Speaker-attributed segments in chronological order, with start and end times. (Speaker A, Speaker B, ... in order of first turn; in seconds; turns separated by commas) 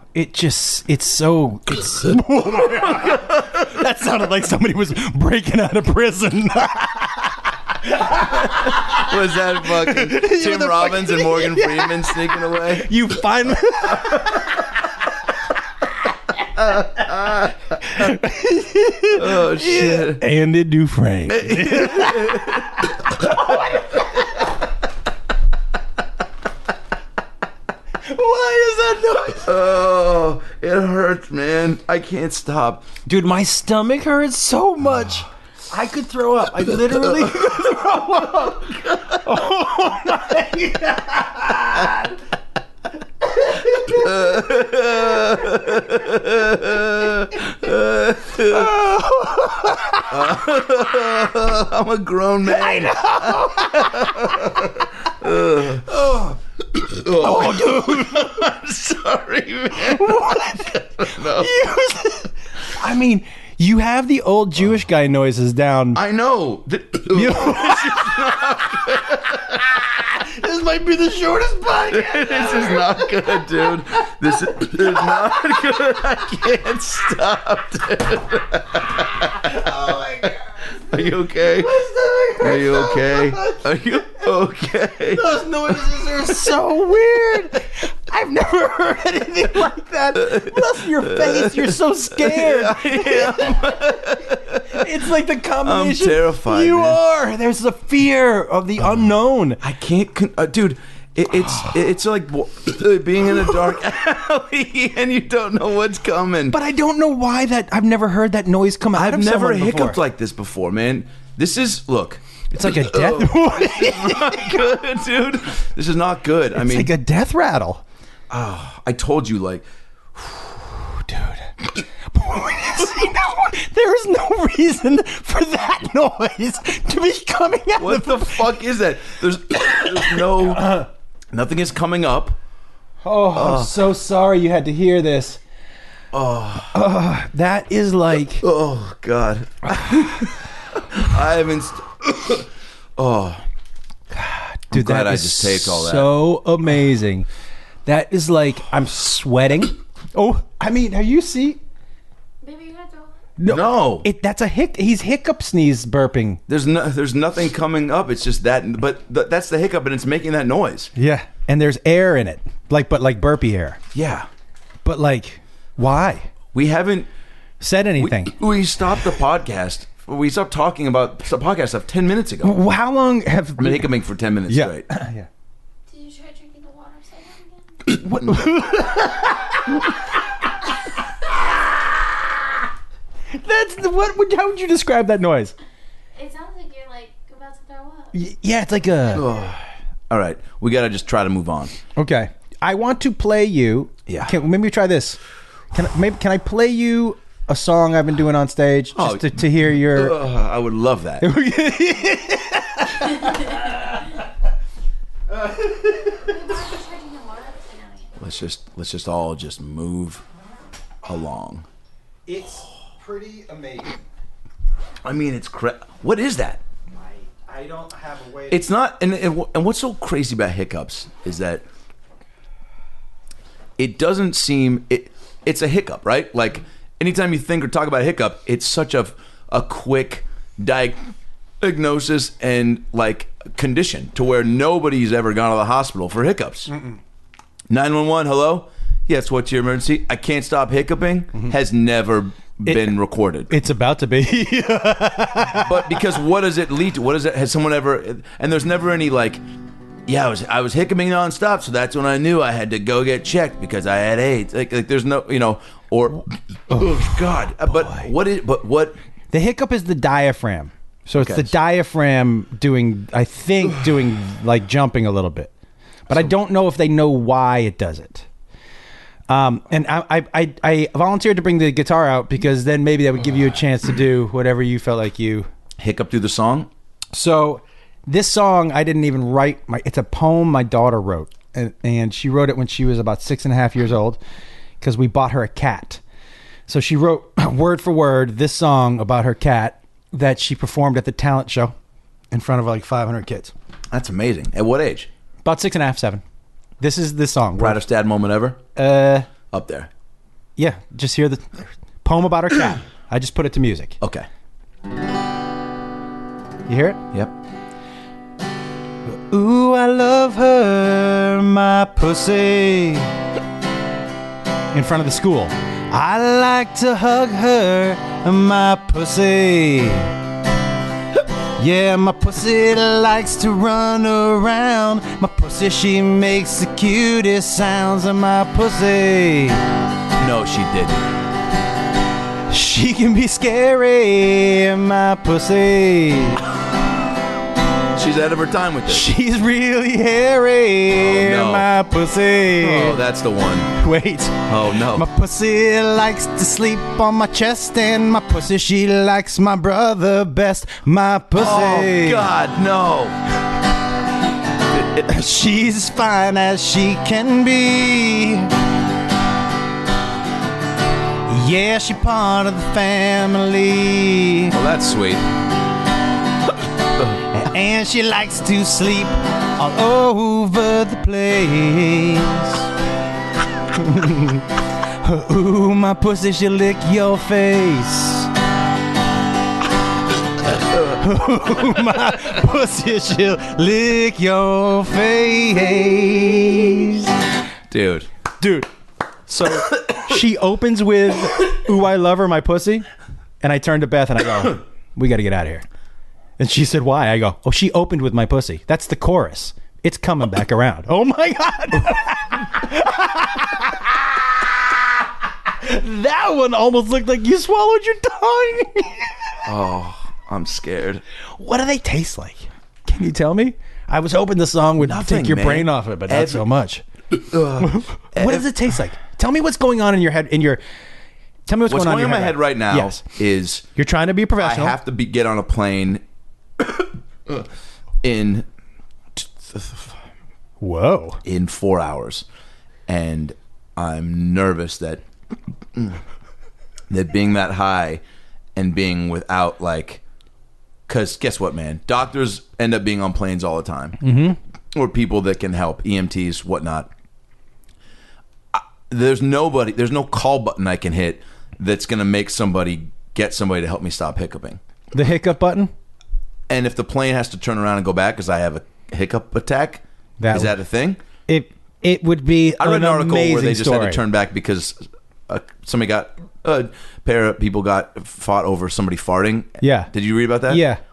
Speaker A: 0.1-14.7, Speaker B: 8.6-12.9, Speaker B: 16.6-17.8, Speaker A: 17.8-24.1, Speaker B: 19.1-20.3, Speaker B: 21.3-23.6, Speaker A: 28.0-29.5, Speaker B: 29.4-32.9, Speaker A: 33.0-42.2, Speaker B: 37.0-37.6, Speaker B: 38.4-39.2, Speaker B: 43.7-48.8, Speaker A: 48.5-50.2, Speaker B: 50.1-55.9, Speaker A: 52.5-54.5, Speaker A: 55.9-56.4, Speaker B: 56.8-61.5, Speaker A: 57.0-58.4, Speaker A: 59.8-66.0, Speaker B: 65.9-70.1, Speaker A: 67.1-68.4, Speaker A: 70.2-73.4, Speaker B: 71.9-80.3, Speaker A: 74.6-75.8, Speaker A: 79.5-80.3, Speaker B: 80.9-81.7, Speaker A: 81.5-83.6, Speaker B: 82.4-86.3, Speaker A: 85.1-93.8, Speaker B: 90.1-94.9, Speaker A: 94.7-99.6, Speaker B: 95.6-97.0, Speaker B: 99.6-106.6, Speaker A: 106.5-110.0, Speaker B: 109.0-116.9, Speaker A: 112.5-114.8, Speaker A: 116.5-117.8, Speaker B: 118.3-120.7, Speaker A: 121.0-121.5, Speaker A: 122.1-128.5, Speaker B: 127.8-130.8, Speaker A: 129.8-130.9, Speaker B: 131.3-132.4, Speaker A: 133.0-135.4, Speaker B: 133.3-133.7, Speaker B: 136.1-136.8, Speaker A: 136.7-138.5, Speaker B: 138.4-143.4, Speaker A: 144.1-147.3, Speaker B: 144.7-146.1, Speaker A: 147.9-151.6, Speaker C: 152.4-153.2, Speaker A: 153.4-156.4, Speaker B: 153.5-154.1, Speaker B: 156.5-160.9, Speaker A: 161.0-163.8, Speaker B: 163.9-164.3, Speaker A: 164.8-166.3, Speaker B: 166.5-167.1, Speaker A: 167.6-168.3, Speaker B: 168.0-172.6, Speaker A: 172.4-173.9, Speaker B: 173.6-174.9, Speaker A: 174.5-175.3, Speaker C: 175.9-177.8, Speaker A: 177.9-180.0, Speaker A: 183.3-185.5, Speaker C: 186.1-188.1, Speaker A: 188.1-189.3, Speaker B: 189.1-191.7, Speaker A: 192.0-195.2, Speaker B: 194.1-194.3, Speaker A: 195.7-200.2, Speaker B: 199.0-201.3, Speaker A: 201.2-203.7, Speaker A: 205.3-206.3, Speaker C: 206.2-208.1, Speaker B: 208.2-210.2, Speaker B: 211.0-211.7, Speaker A: 212.3-214.0, Speaker B: 215.0-216.6, Speaker A: 216.9-218.7, Speaker B: 218.5-221.7, Speaker B: 223.8-236.7, Speaker A: 236.7-237.0, Speaker B: 237.7-243.5, Speaker A: 242.7-242.9, Speaker A: 243.5-245.9, Speaker B: 245.5-249.4, Speaker B: 250.1-259.0, Speaker A: 256.7-257.1, Speaker A: 257.7-258.1, Speaker A: 259.3-265.5, Speaker B: 261.2-261.5, Speaker A: 266.1-268.2, Speaker A: 269.3-275.5, Speaker B: 275.8-276.7, Speaker A: 277.1-284.2, Speaker A: 284.8-286.0, Speaker A: 286.7-291.7, Speaker A: 292.3-293.5, Speaker B: 293.9-295.1, Speaker A: 295.4-296.2, Speaker A: 296.8-297.8, Speaker B: 297.6-298.6, Speaker A: 298.8-299.3, Speaker B: 299.5-299.9, Speaker A: 300.6-304.0, Speaker B: 304.0-304.3, Speaker A: 306.7-307.0, Speaker A: 309.1-313.1, Speaker A: 314.7-320.1, Speaker A: 321.6-329.6, Speaker B: 330.2-331.2, Speaker A: 332.5-336.5, Speaker B: 337.9-339.1, Speaker A: 338.9-343.0, Speaker B: 341.0-341.7, Speaker B: 342.6-343.7, Speaker A: 343.8-352.2, Speaker B: 344.5-345.1, Speaker B: 351.3-353.2, Speaker B: 354.8-355.0, Speaker A: 355.0-358.5, Speaker A: 361.2-364.5, Speaker B: 364.5-365.3, Speaker A: 367.3-372.6, Speaker A: 373.7-378.3, Speaker A: 380.8-387.1, Speaker B: 387.7-388.1, Speaker A: 388.4-388.7, Speaker A: 389.3-392.9, Speaker A: 393.4-395.6, Speaker A: 396.4-404.2, Speaker A: 405.6-409.1, Speaker B: 409.4-411.0, Speaker A: 411.4-416.8, Speaker B: 414.8-416.5, Speaker B: 417.1-418.5, Speaker A: 417.6-420.6, Speaker A: 421.5-423.0, Speaker B: 421.7-423.7, Speaker A: 423.8-424.8, Speaker B: 424.4-426.0, Speaker B: 426.6-427.5, Speaker B: 428.0-428.5, Speaker B: 429.1-429.9, Speaker A: 430.6-431.2, Speaker B: 431.2-432.2, Speaker B: 432.9-435.0, Speaker B: 435.7-436.0, Speaker B: 436.9-438.0, Speaker B: 438.5-440.0, Speaker B: 440.9-444.0, Speaker A: 444.0-444.4, Speaker B: 444.7-446.9, Speaker B: 448.5-454.6, Speaker A: 454.9-455.7, Speaker B: 456.5-461.0, Speaker A: 460.2-460.6, Speaker A: 461.3-464.0, Speaker B: 462.6-470.6, Speaker A: 469.6-469.9, Speaker A: 470.5-470.8